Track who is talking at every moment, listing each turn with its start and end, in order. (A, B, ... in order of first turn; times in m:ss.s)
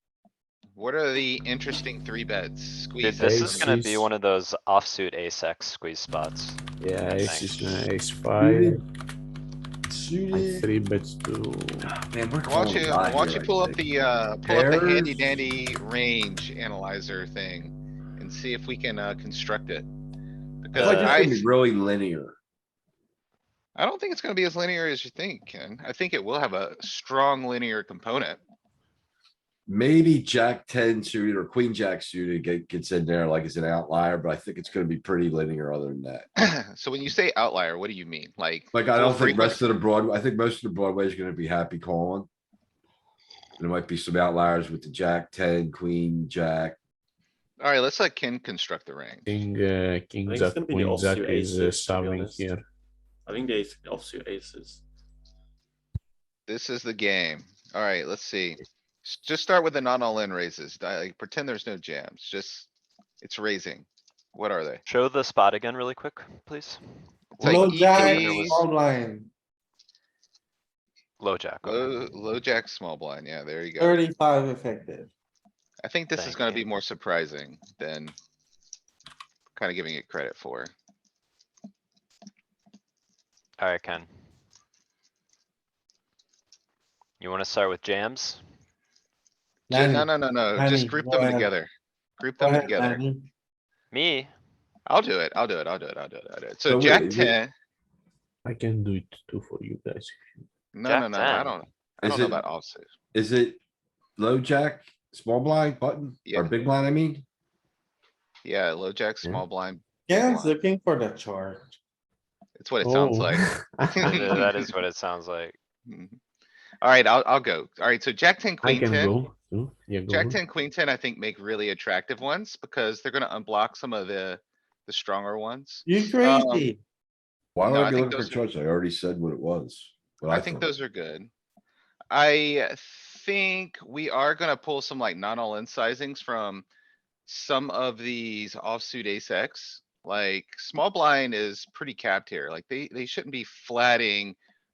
0:00.8-0:03.7 A
0:03.0-0:06.6 B
0:03.2-0:04.1 C
0:06.8-0:08.8 C
0:07.2-0:07.9 B
0:08.4-0:08.8 D
0:09.8-0:10.7 D
0:10.3-0:11.9 C
0:11.8-0:13.8 D
0:12.4-0:19.9 A
0:14.4-0:15.4 D
0:20.6-0:21.5 A
0:20.7-0:22.4 D
0:20.8-0:21.1 E
0:23.8-0:28.4 A
0:29.7-0:36.3 D
0:36.4-0:39.6 A
0:38.7-0:42.3 D
0:43.6-0:46.8 D
0:47.6-0:49.3 A
0:49.2-0:52.6 C
0:50.2-0:52.4 E
0:53.2-0:54.8 E
0:56.5-1:02.7 A
1:03.2-1:04.8 A
1:04.8-1:06.8 B
1:07.4-1:08.6 B
1:07.4-1:08.6 A
1:07.4-1:09.3 F
1:11.2-1:12.0 B
1:11.6-1:14.0 A
1:13.8-1:15.1 F
1:15.8-1:18.1 A
1:16.1-1:16.6 B
1:19.6-1:20.7 A
1:23.6-1:24.1 B
1:27.2-1:28.4 B
1:29.7-1:31.5 F
1:29.7-1:33.0 A
1:32.4-1:33.3 F
1:33.9-1:34.3 B
1:34.9-1:37.5 A
1:36.6-1:37.4 D
1:38.4-1:40.4 C
1:40.7-1:42.9 A
1:40.8-1:41.6 B
1:42.0-1:42.4 D
1:43.1-1:43.6 D
1:44.2-1:47.2 D
1:46.2-1:46.5 A
1:48.4-1:50.5 A
1:50.1-1:51.8 F
1:52.6-1:54.7 A
1:52.8-1:54.4 C
1:54.0-1:55.6 B
1:55.9-1:56.2 A
1:56.8-1:59.2 A
1:58.6-2:00.4 C
2:00.1-2:06.7 A
2:05.8-2:06.8 F
2:07.5-2:10.7 D
2:07.6-2:08.5 A
2:10.3-2:11.3 A
2:12.1-2:16.6 A
2:17.2-2:24.4 A